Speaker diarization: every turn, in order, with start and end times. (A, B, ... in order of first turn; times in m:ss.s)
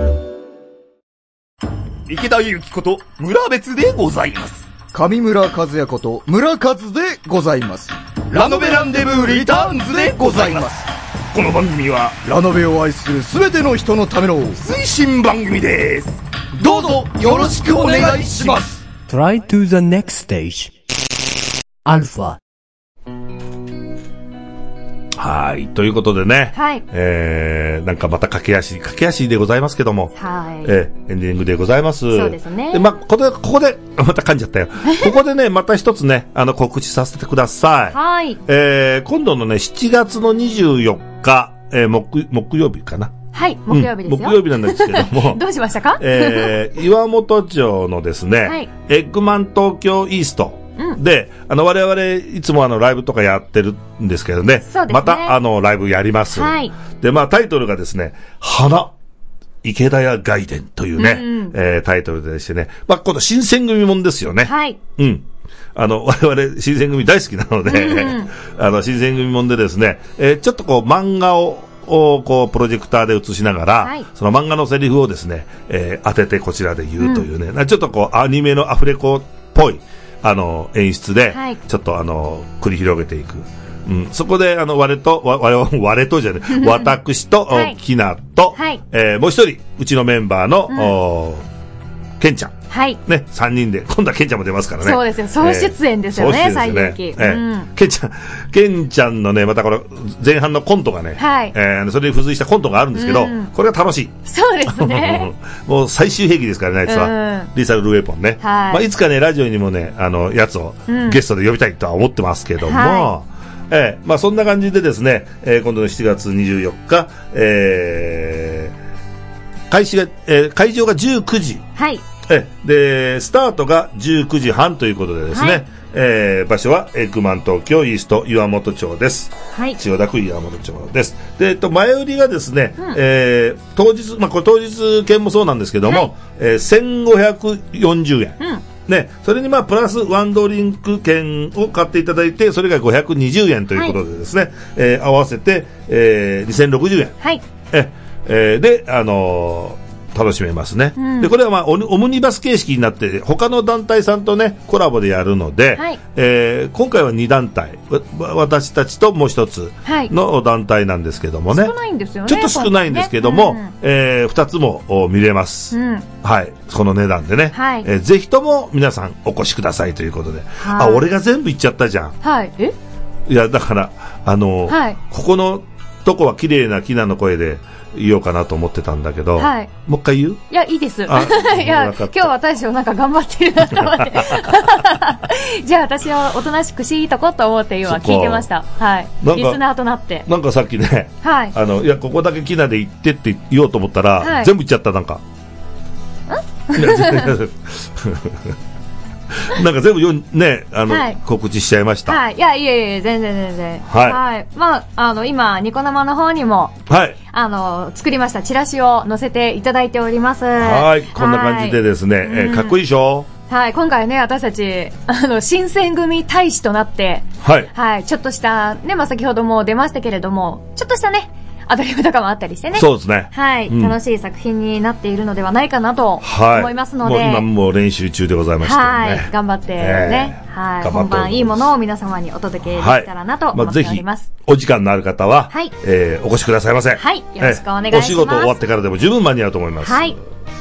0:02.1-0:04.7 A
0:04.9-0:10.9 B
0:08.3-0:10.8 A
0:11.3-0:12.3 A
0:12.3-0:14.7 B
0:14.6-0:18.6 A
0:16.6-0:18.8 B
0:19.1-0:20.7 C
0:21.9-0:22.4 C
0:25.2-0:30.1 D
0:26.5-0:26.8 E
0:30.2-0:30.7 E
0:30.6-0:43.1 D
0:32.1-0:32.9 E
0:37.9-0:38.4 E
0:43.3-0:46.6 E
0:43.7-0:45.4 D
0:46.0-0:58.9 D
0:54.6-0:55.4 E
0:56.3-0:56.7 E
0:59.6-1:31.4 D
1:01.0-1:01.6 E
1:04.4-1:04.8 E
1:07.7-1:08.3 E
1:17.0-1:17.3 E
1:21.3-1:21.6 E
1:26.5-1:26.9 E
1:27.5-1:27.8 E
1:28.5-1:28.8 E
1:30.7-1:31.0 E
1:32.2-1:44.2 D
1:32.7-1:33.0 E
1:34.8-1:37.7 E
1:41.2-1:41.5 E
1:43.0-1:43.5 E
1:44.3-1:45.3 E
1:44.7-1:58.7 D
1:46.9-1:47.5 E
1:48.4-1:48.8 E
1:50.9-1:51.2 E
1:52.6-1:53.1 E
1:59.7-2:01.6 D
2:01.8-2:02.0 E
2:02.3-2:27.2 D
2:05.3-2:05.6 E
2:09.5-2:09.8 E
2:27.7-2:41.7 D
2:31.0-2:31.3 E
2:39.8-2:40.1 E
2:41.5-2:43.7 E
2:42.3-2:52.2 D
2:45.7-2:46.1 E
2:47.5-2:47.9 E
2:50.6-2:51.0 E
2:52.2-2:52.8 E
2:53.3-3:00.4 D
2:54.7-2:55.0 E
2:59.4-2:59.7 E
3:00.5-3:10.3 E
3:01.1-3:02.3 D
3:03.7-3:04.6 D
3:07.9-3:08.5 D
3:09.2-3:09.6 D
3:10.3-3:15.2 D
3:11.2-3:11.6 E
3:14.2-3:14.5 E
3:16.3-3:17.3 E
3:16.8-3:18.5 D
3:19.4-3:22.2 D
3:20.9-3:21.2 E
3:22.1-3:26.8 E
3:23.9-3:24.2 D
3:26.9-3:27.2 D
3:27.3-3:32.8 E
3:30.6-3:33.3 D
3:33.5-3:47.5 E
3:37.4-3:37.7 D
3:42.8-3:44.0 D
3:46.2-3:51.7 D
3:48.6-3:54.3 E
3:52.8-4:00.2 D
3:57.0-3:58.6 E
3:59.8-4:00.2 E